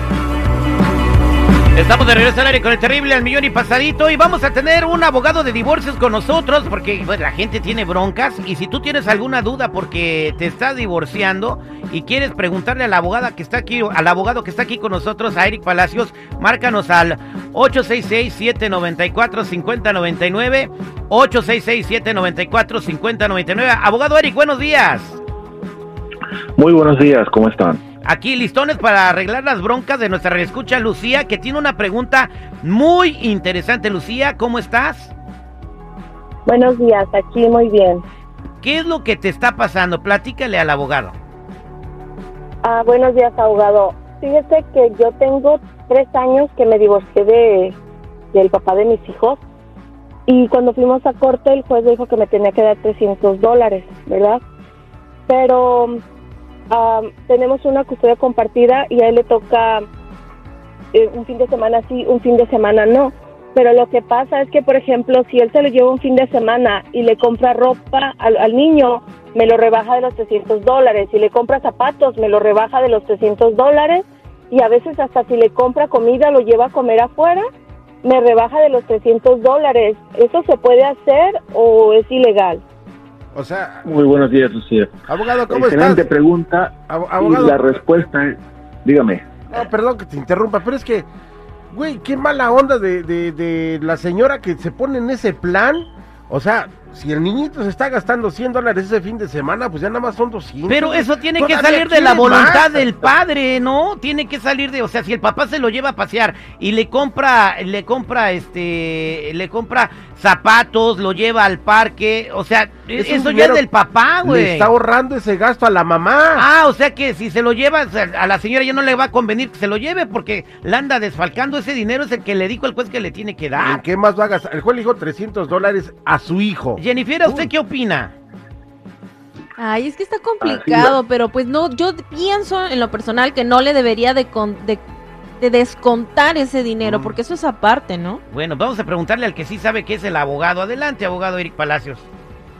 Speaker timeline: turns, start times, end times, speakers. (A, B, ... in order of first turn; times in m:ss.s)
0:01.7-0:25.2 A
0:26.6-0:27.8 B
0:28.0-0:35.1 A
0:36.5-0:38.0 C
0:38.6-0:41.2 A
0:42.6-0:47.7 C
0:48.3-0:49.4 C
0:50.3-0:54.4 C
0:55.3-0:56.0 C
0:56.7-0:59.8 C
1:00.9-1:17.4 C
1:18.0-1:22.6 C
1:23.3-1:23.8 D
1:23.8-1:24.9 B
1:25.1-1:26.0 D
1:25.5-1:29.2 B
1:26.9-1:27.6 D
1:29.5-1:31.1 D
1:31.7-1:42.9 D
1:40.7-1:54.7 A
1:53.0-1:53.6 D
1:54.2-1:56.5 D
1:56.4-2:03.8 A
2:03.6-2:07.5 D
2:06.8-2:08.1 A
2:09.7-2:14.8 E
2:10.4-2:11.0 B
2:15.4-2:18.1 E
2:16.8-2:17.1 A
2:18.3-2:22.1 A